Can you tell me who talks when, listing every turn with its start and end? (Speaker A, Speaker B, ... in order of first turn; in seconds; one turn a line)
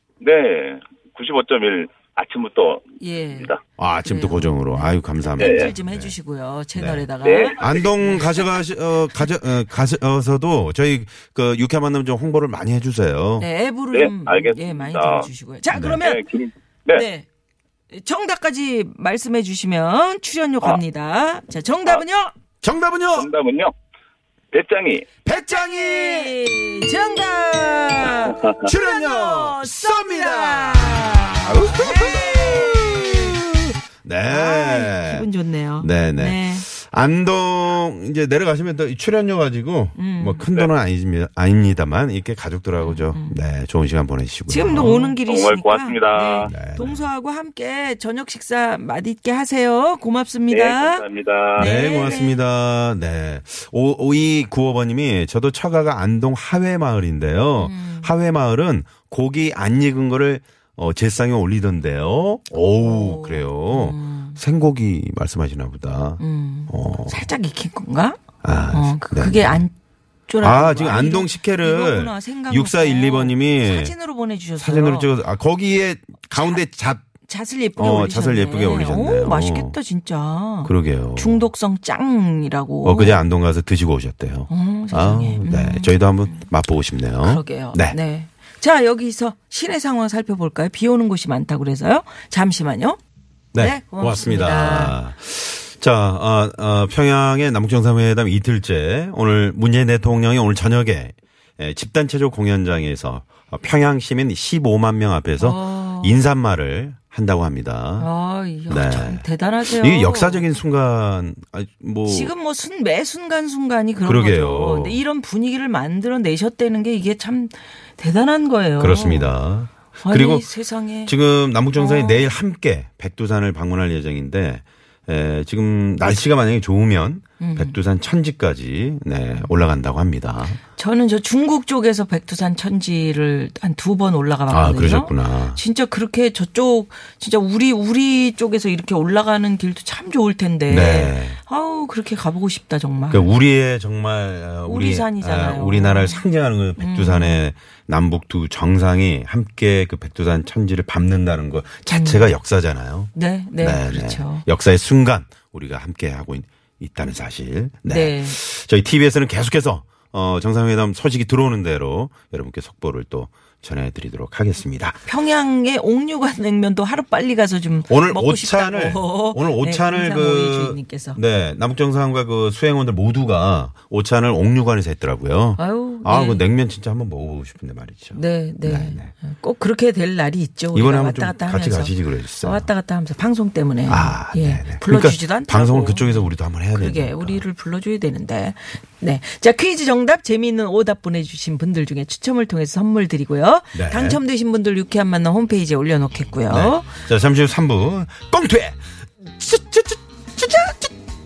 Speaker A: 0.2-3.6
Speaker B: 3.0-8.3
Speaker C: 3.8-6.2
Speaker A: 5.4-5.7
Speaker C: 6.7-13.5
Speaker A: 7.2-8.1
Speaker B: 13.4-16.2
Speaker A: 13.9-15.3
Speaker C: 15.7-16.0
Speaker A: 16.0-17.1
Speaker B: 16.9-17.3
Speaker B: 17.9-22.3
Speaker C: 22.6-23.3
Speaker A: 23.1-23.7
Speaker A: 24.5-25.1
Speaker C: 25.2-26.4
Speaker B: 25.3-33.5
Speaker A: 28.3-28.6
Speaker C: 28.5-33.4
Speaker C: 34.0-35.3
Speaker B: 34.2-36.7
Speaker C: 35.8-45.2
Speaker B: 40.0-40.5
Speaker B: 42.8-43.4
Speaker B: 44.5-51.0
Speaker A: 45.2-46.5
Speaker C: 46.4-47.1
Speaker A: 50.5-51.9
Speaker B: 51.6-52.4
Speaker C: 51.6-67.2
Speaker B: 57.6-58.1
Speaker B: 62.8-64.4
Speaker B: 66.2-69.7
Speaker C: 68.4-69.7
Speaker B: 70.3-75.1
Speaker C: 70.4-74.0
Speaker C: 74.6-77.0
Speaker B: 76.3-76.6
Speaker B: 77.2-83.2
Speaker C: 77.8-79.8
Speaker C: 80.6-81.5
Speaker C: 82.8-88.0
Speaker B: 84.5-86.5
Speaker B: 87.2-93.0
Speaker C: 93.5-108.1
Speaker B: 93.6-95.0
Speaker B: 105.4-106.2
Speaker B: 108.0-110.5
Speaker C: 108.7-112.3
Speaker B: 112.0-119.3
Speaker C: 114.0-115.0
Speaker C: 118.8-120.5
Speaker B: 120.0-121.2
Speaker C: 121.0-130.6
Speaker B: 121.7-122.3
Speaker B: 127.4-127.8
Speaker B: 130.8-143.3
Speaker C: 134.5-135.6
Speaker C: 140.7-141.4
Speaker C: 143.1-165.0
Speaker B: 144.7-146.2
Speaker B: 146.8-147.4
Speaker B: 151.9-152.3
Speaker B: 153.1-154.5
Speaker B: 157.8-158.4
Speaker B: 165.1-171.2
Speaker C: 167.9-179.1
Speaker B: 175.6-176.4
Speaker B: 178.1-196.9
Speaker C: 180.7-182.7
Speaker C: 183.9-187.4
Speaker C: 193.7-194.2
Speaker C: 196.5-200.9